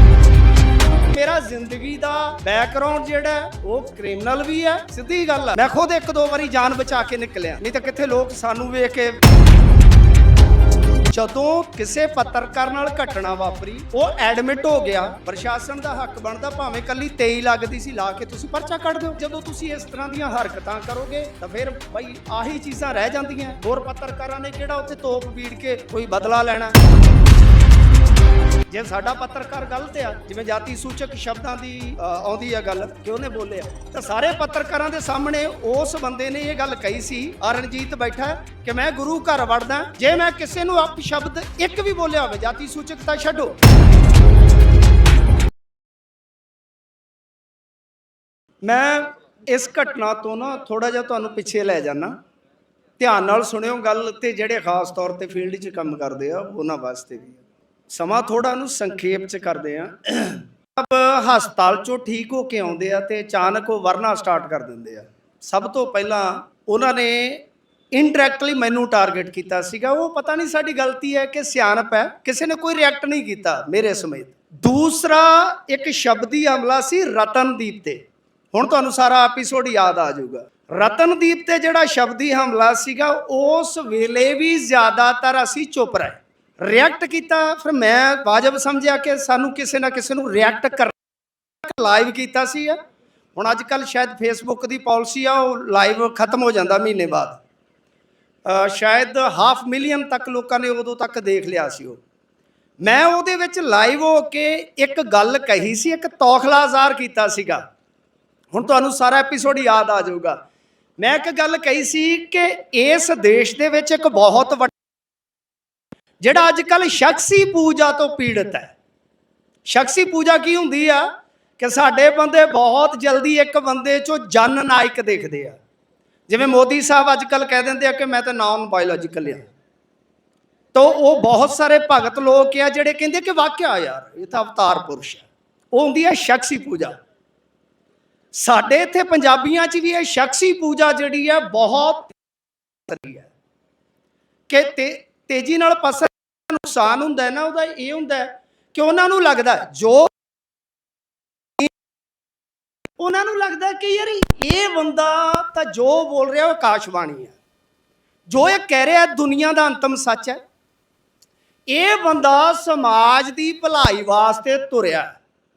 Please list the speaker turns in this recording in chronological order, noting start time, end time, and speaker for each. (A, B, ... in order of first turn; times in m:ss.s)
0:01.1-0:09.2 A
0:11.1-0:26.8 A
0:28.7-0:43.5 A
0:48.6-0:52.1 A
0:53.0-1:18.0 A
1:18.5-1:30.9 A
1:31.6-1:32.8 A
1:33.3-1:37.4 A
1:38.4-1:42.0 A
1:42.8-1:47.6 A
1:48.5-1:50.4 A
1:51.0-1:54.7 A
1:56.2-1:58.7 A
1:59.7-2:05.6 A
2:06.3-2:09.5 A
2:10.7-2:16.9 A
2:18.3-2:22.2 A
2:22.9-2:23.3 A
2:24.5-2:30.1 A
2:33.0-2:37.3 A
2:38.3-2:40.4 A
2:41.7-2:45.1 A